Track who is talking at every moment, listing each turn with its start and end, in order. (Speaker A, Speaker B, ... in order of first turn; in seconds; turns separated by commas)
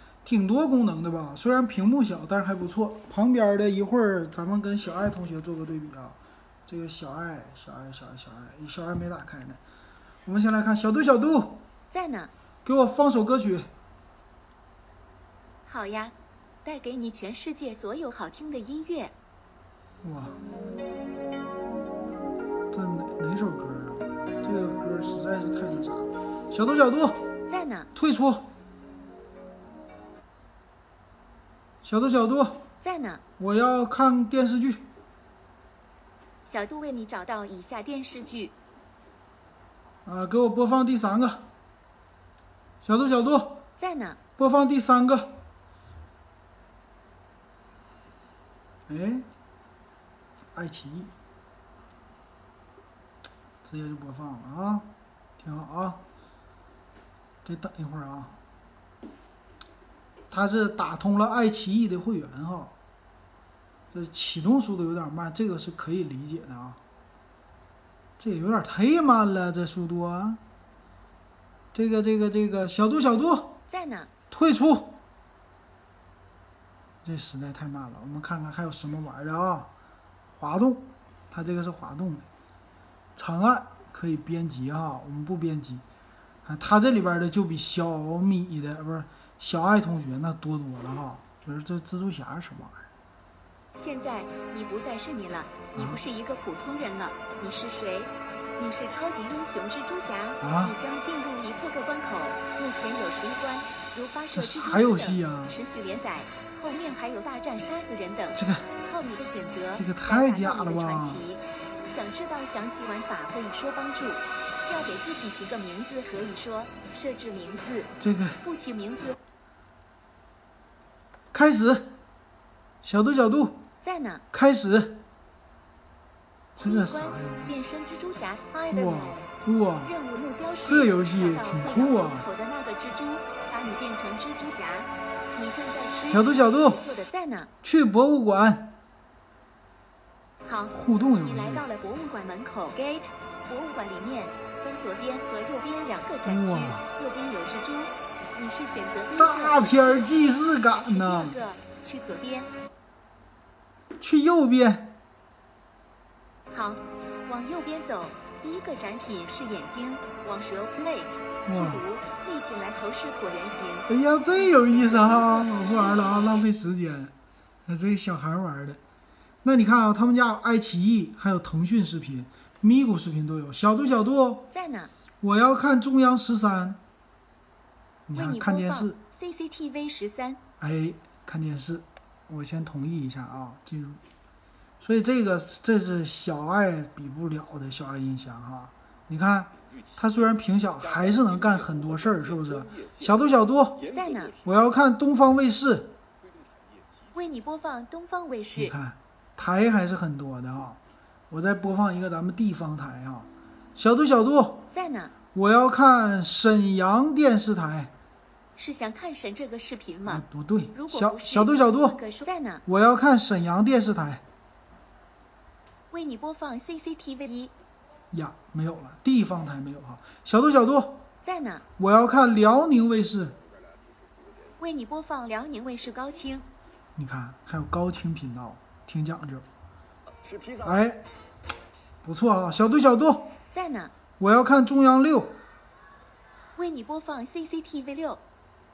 Speaker A: 0.2-9.6, Speaker A: 10.2-11.6, Speaker B: 11.9-12.3, Speaker A: 12.7-13.7, Speaker B: 15.7-16.1, Speaker B: 16.6-19.1, Speaker A: 20.0-20.4, Speaker A: 22.7-27.3, Speaker B: 27.5-27.9, Speaker A: 27.9-28.5, Speaker A: 31.8-32.7, Speaker B: 32.8-33.2, Speaker A: 33.4-34.9, Speaker B: 36.5-38.5, Speaker A: 40.0-41.5, Speaker A: 42.8-43.6, Speaker B: 43.8-44.2, Speaker A: 44.4-45.4, Speaker A: 48.9-49.3, Speaker A: 50.5-51.1, Speaker A: 53.6-56.0, Speaker A: 57.5-58.4, Speaker A: 60.3-62.7, Speaker A: 63.9-66.8, Speaker A: 68.2-70.4, Speaker A: 71.7-73.6, Speaker B: 73.7-74.1, Speaker A: 74.3-75.0, Speaker A: 77.0-79.7, Speaker A: 80.3-82.3, Speaker A: 83.2-85.8, Speaker A: 86.5-92.9, Speaker B: 93.8-119.2, Speaker A: 95.7-96.0, Speaker A: 100.4-100.8, Speaker A: 104.3-105.6, Speaker A: 108.3-108.7, Speaker A: 109.8-111.2, Speaker A: 118.0-118.4, Speaker A: 121.3-122.0, Speaker A: 122.8-123.7, Speaker B: 123.8-124.2, Speaker A: 124.3-125.0, Speaker A: 126.6-127.5, Speaker B: 126.6-129.3, Speaker A: 128.7-129.9, Speaker B: 129.8-137.5, Speaker A: 130.7-132.3, Speaker A: 136.1-136.9, Speaker A: 137.6-138.8, Speaker B: 140.4-152.5, Speaker A: 140.7-141.7, Speaker A: 146.2-146.9, Speaker A: 149.2-151.4, Speaker A: 154.0-155.0, Speaker B: 156.5-166.5, Speaker A: 161.5-161.8, Speaker A: 163.9-167.1, Speaker A: 167.7-168.8, Speaker A: 169.4-174.5, Speaker B: 174.5-174.9, Speaker A: 175.2-176.8, Speaker A: 178.1-179.0, Speaker B: 178.1-180.4, Speaker A: 180.6-184.0, Speaker A: 184.8-196.0, Speaker B: 193.9-194.4, Speaker B: 197.1-198.7, Speaker A: 198.6-200.8, Speaker A: 201.3-204.7, Speaker B: 204.7-205.1, Speaker A: 205.3-207.9, Speaker B: 208.6-212.6, Speaker A: 210.1-212.0, Speaker A: 212.7-214.2, Speaker B: 215.9-217.5, Speaker A: 218.1-221.1, Speaker B: 221.2-221.6, Speaker A: 221.8-223.4, Speaker B: 224.6-226.5, Speaker A: 227.0-229.5, Speaker A: 230.6-231.1, Speaker A: 232.0-233.4, Speaker B: 233.5-233.9, Speaker A: 234.2-235.4, Speaker B: 236.6-238.2